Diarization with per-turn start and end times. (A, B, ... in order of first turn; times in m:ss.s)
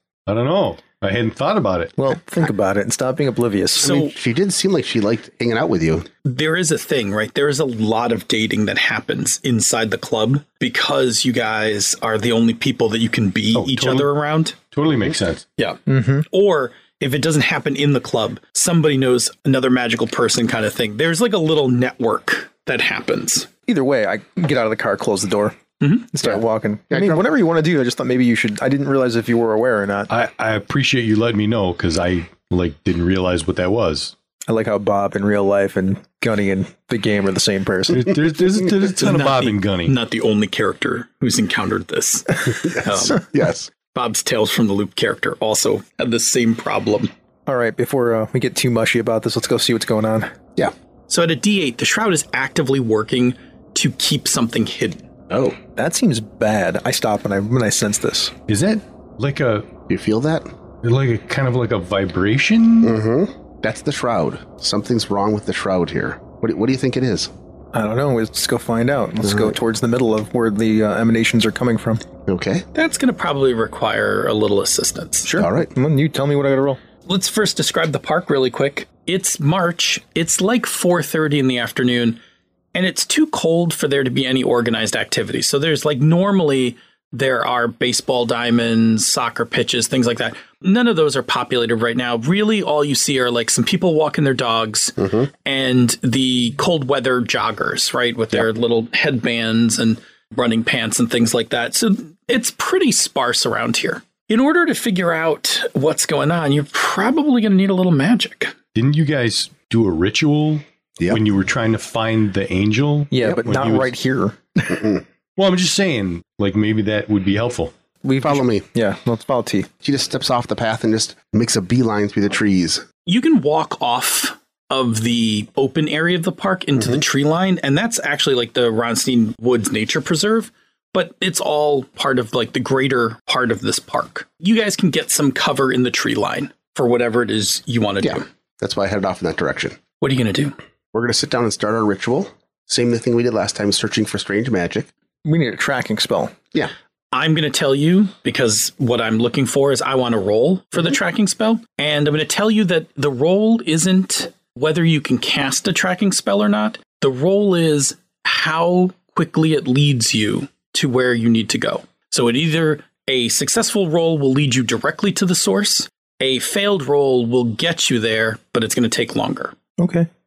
0:00.3-0:01.9 A
0:02.0-0:04.1 B
0:03.8-0:04.1 C
0:04.1-0:06.1 D
0:06.2-0:14.6 C
0:13.5-0:14.1 A
0:14.6-0:15.4 A
0:15.6-0:23.5 C
0:15.8-0:16.2 B
0:23.7-0:30.1 B
0:26.2-0:27.2 D
0:30.1-0:34.1 A
0:34.5-0:38.1 B
0:37.9-0:39.9 A
0:38.8-0:43.2 C
0:42.5-0:43.7 D
0:43.9-0:47.1 C
0:47.5-0:50.3 B
0:51.1-0:55.0 C
0:55.3-0:55.6 D
0:55.7-0:58.3 B
0:58.5-0:59.7 A
0:59.9-1:00.5 D
1:00.8-1:02.9 A
1:02.8-1:07.3 D
1:07.7-1:12.0 B
1:09.2-1:09.5 D
1:12.2-1:12.6 D
1:12.7-1:15.3 C
1:15.2-1:16.8 B
1:15.3-1:15.7 D
1:17.0-1:22.2 C
1:22.7-1:48.5 C
1:48.7-1:53.9 A
1:53.1-1:54.8 B
1:54.7-1:55.0 D
1:55.4-1:57.7 A
1:58.0-1:59.7 B
1:58.2-1:58.6 D
1:59.8-2:02.8 D
2:03.0-2:18.2 C
2:18.0-2:19.8 D
2:20.0-2:20.6 C
2:20.9-2:24.9 D
2:25.2-2:26.3 B
2:27.1-2:49.5 C
2:49.8-2:50.1 B